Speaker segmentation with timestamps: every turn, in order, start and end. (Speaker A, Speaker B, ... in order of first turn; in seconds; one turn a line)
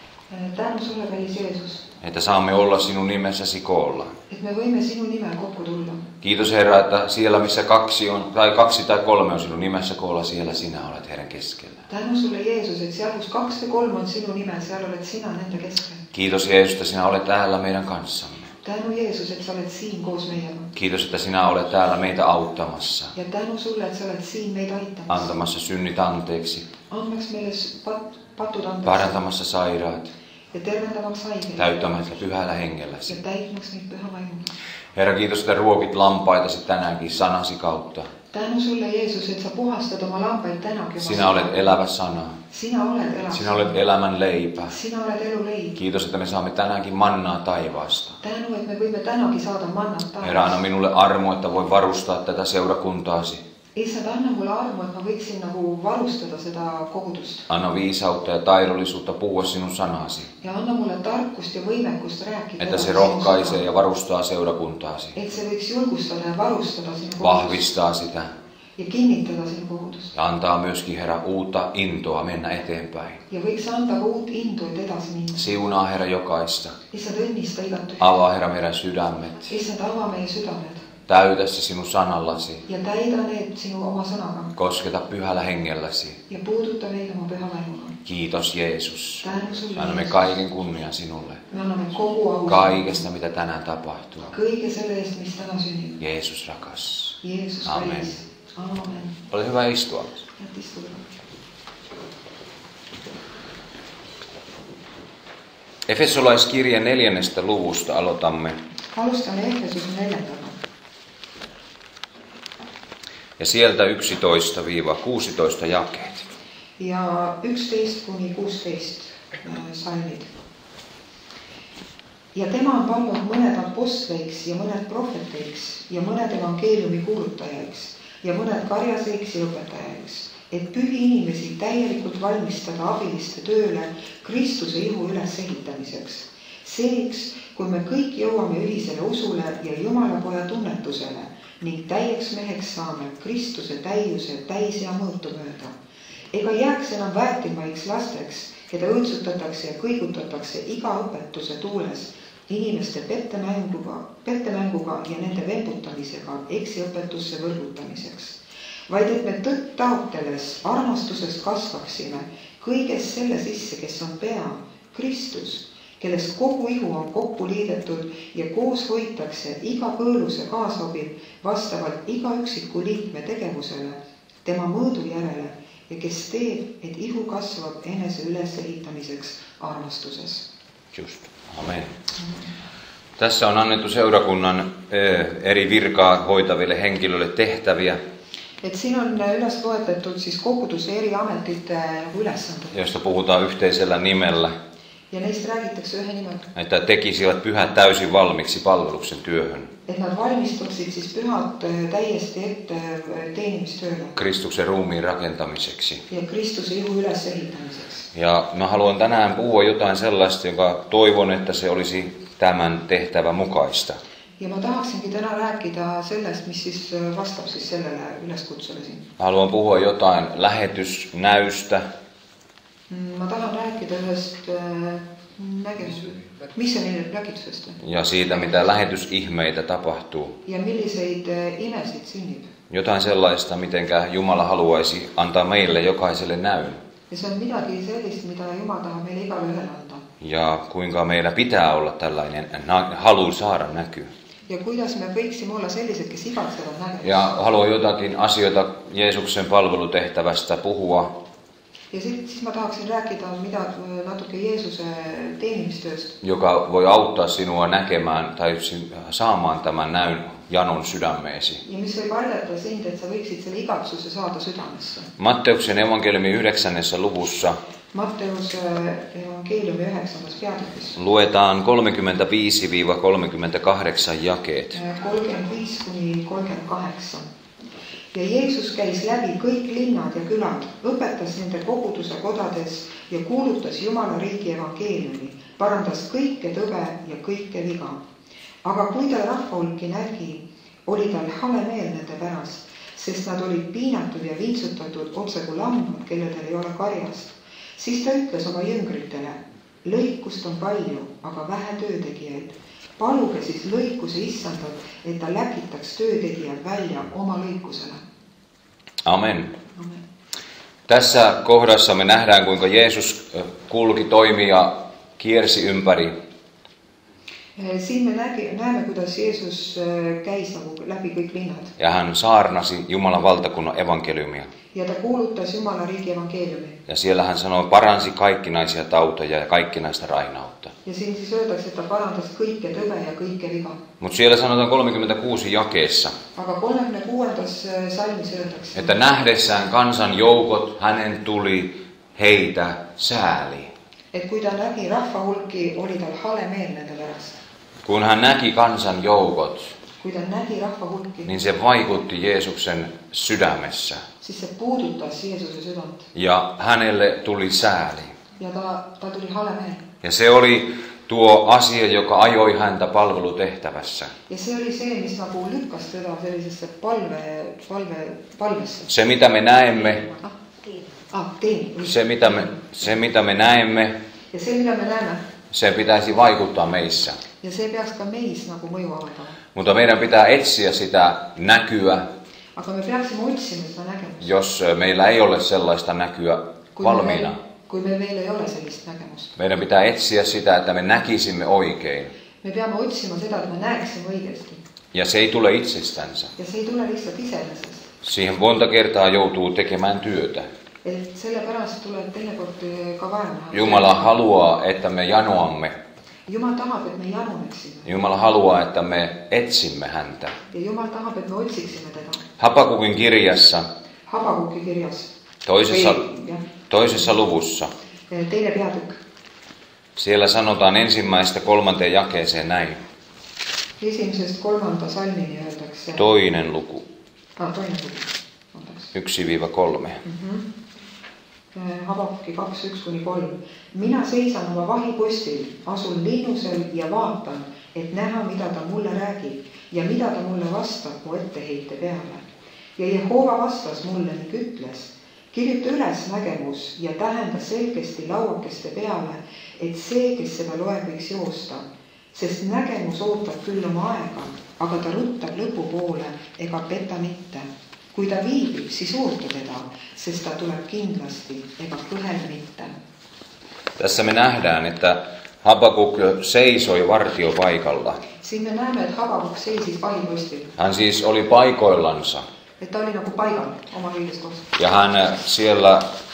Speaker A: 0.3-1.9
Speaker B: 2.0-4.1
Speaker A: 4.3-6.1
Speaker B: 6.2-11.9
Speaker A: 11.9-16.0
Speaker B: 16.1-18.5
Speaker A: 18.6-20.7
Speaker B: 20.8-23.1
Speaker A: 23.1-25.3
Speaker B: 25.1-26.7
Speaker A: 26.9-29.1
Speaker B: 28.8-30.1
Speaker A: 30.5-31.7
Speaker B: 31.6-33.2
Speaker A: 33.1-34.5
Speaker B: 34.9-38.1
Speaker A: 38.3-41.8
Speaker B: 41.0-42.4
Speaker A: 42.5-43.8
Speaker B: 43.3-44.8
Speaker A: 44.6-45.8
Speaker B: 45.8-48.2
Speaker A: 48.2-50.6
Speaker B: 50.2-53.4
Speaker A: 53.8-57.5
Speaker B: 57.5-60.3
Speaker A: 60.4-63.7
Speaker B: 62.6-65.2
Speaker A: 65.2-67.6
Speaker B: 67.2-68.3
Speaker A: 68.8-70.1
Speaker B: 70.1-73.2
Speaker A: 73.3-75.5
Speaker B: 75.3-76.8
Speaker A: 76.9-78.1
Speaker B: 78.0-79.5
Speaker A: 79.5-80.9
Speaker B: 81.1-82.7
Speaker A: 82.7-84.5
Speaker B: 84.6-86.2
Speaker A: 86.3-88.0
Speaker B: 88.0-91.5
Speaker A: 89.2-90.3
Speaker A: 91.5-93.0
Speaker B: 92.5-94.3
Speaker A: 94.3-96.0
Speaker B: 96.0-98.2
Speaker A: 97.2-99.2
Speaker B: 99.3-100.2
Speaker A: 100.4-101.1
Speaker B: 105.9-108.6
Speaker A: 108.9-110.6
Speaker B: 113.4-116.3
Speaker A: 116.8-120.3
Speaker A: 122.3-145.8
Speaker A: 146.3-180.5
Speaker B: 180.9-181.9
Speaker B: 183.2-188.0
Speaker A: 188.6-192.8
Speaker B: 192.7-194.5
Speaker A: 195.1-196.5
Speaker B: 196.6-199.7
Speaker A: 199.9-204.2
Speaker B: 204.2-206.1
Speaker A: 206.1-208.1
Speaker B: 208.1-214.0
Speaker A: 214.4-219.1
Speaker B: 219.2-221.9
Speaker A: 222.9-227.8
Speaker B: 227.8-230.4
Speaker A: 230.4-232.5
Speaker B: 232.7-236.8
Speaker A: 237.1-240.1
Speaker B: 240.2-244.1
Speaker A: 244.5-247.4
Speaker B: 247.0-251.2
Speaker A: 251.9-256.2
Speaker B: 256.2-261.6
Speaker A: 261.6-265.1
Speaker B: 265.2-267.6
Speaker A: 267.9-271.0
Speaker B: 271.0-274.8
Speaker A: 274.7-277.3
Speaker A: 278.1-288.0
Speaker A: 288.6-308.0
Speaker B: 309.1-309.5
Speaker A: 309.8-310.0
Speaker B: 310.9-316.1
Speaker A: 317.6-321.8
Speaker B: 321.8-324.5
Speaker A: 324.7-326.8
Speaker B: 326.9-330.8
Speaker A: 330.9-333.8
Speaker B: 334.0-336.2
Speaker A: 336.4-339.0
Speaker B: 338.8-343.7
Speaker A: 344.1-347.4
Speaker B: 347.9-349.7
Speaker A: 350.0-351.3
Speaker B: 351.2-354.0
Speaker A: 354.2-356.1
Speaker B: 356.1-358.1
Speaker A: 358.4-359.9
Speaker B: 360.0-364.1
Speaker A: 364.3-368.9
Speaker B: 368.9-370.1
Speaker A: 371.1-372.7
Speaker B: 371.8-374.0
Speaker A: 374.3-375.2
Speaker B: 375.5-377.2
Speaker A: 377.4-379.4
Speaker B: 379.6-382.1
Speaker A: 382.6-384.3
Speaker B: 384.2-387.4
Speaker A: 386.8-389.4
Speaker B: 389.4-392.1
Speaker A: 392.4-394.6
Speaker B: 394.9-396.3
Speaker A: 396.4-397.9
Speaker B: 398.0-400.5
Speaker A: 400.8-404.2
Speaker B: 403.5-405.8
Speaker A: 406.3-407.9
Speaker B: 407.9-410.4
Speaker A: 410.5-412.3
Speaker B: 412.4-413.7
Speaker A: 414.1-415.1
Speaker B: 415.5-416.1
Speaker A: 415.6-416.4
Speaker B: 416.7-417.7
Speaker A: 418.1-419.0
Speaker B: 420.0-422.8
Speaker A: 423.8-426.1
Speaker B: 425.9-426.9
Speaker A: 427.4-428.9
Speaker B: 428.9-430.0
Speaker A: 430.0-430.5
Speaker A: 431.5-442.2
Speaker A: 442.8-462.7
Speaker B: 463.8-468.0
Speaker A: 468.2-470.5
Speaker B: 470.6-472.3
Speaker A: 472.6-474.5
Speaker B: 474.6-475.9